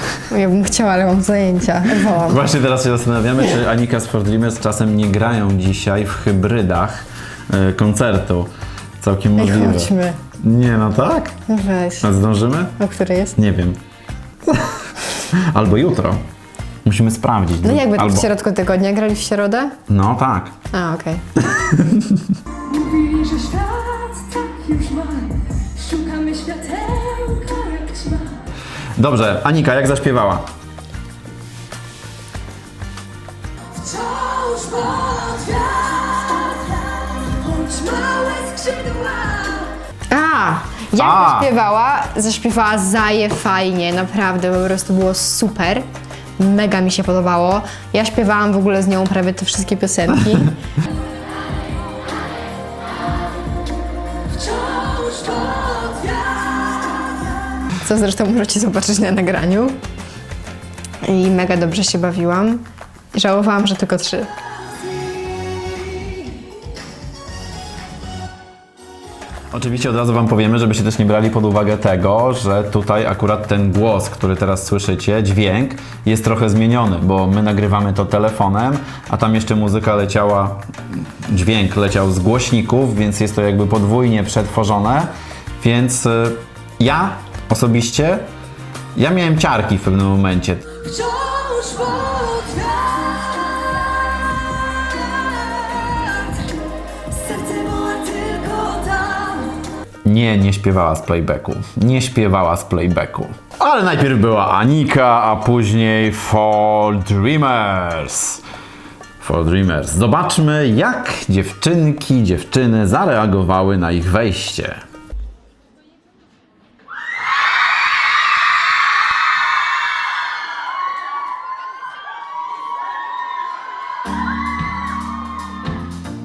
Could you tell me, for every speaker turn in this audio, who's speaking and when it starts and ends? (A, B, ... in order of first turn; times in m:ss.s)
0:00.3-0:02.4 A
0:02.0-0:08.5 B
0:09.0-0:11.3 B
0:09.4-0:10.2 A
0:11.5-0:12.1 A
0:12.0-0:12.7 B
0:12.8-0:13.4 A
0:13.4-0:13.8 B
0:14.5-0:14.7 B
0:15.3-0:16.2 B
0:16.8-0:18.3 B
0:17.6-0:19.8 A
0:19.9-0:20.5 B
0:20.7-0:21.2 A
0:21.5-0:22.3 B
0:22.7-0:28.4 C
0:29.0-0:30.5 B
0:33.7-0:39.7 C
0:40.1-0:45.8 A
0:41.0-0:41.5 B
0:46.4-0:50.5 A
0:54.3-0:57.6 C
0:57.8-0:59.8 A
1:01.0-1:04.3 A
1:04.8-1:06.4 C
1:09.5-1:28.3 B
1:29.0-1:30.6 B
1:30.8-1:39.6 C
1:40.0-1:48.4 B
1:49.2-1:54.8 B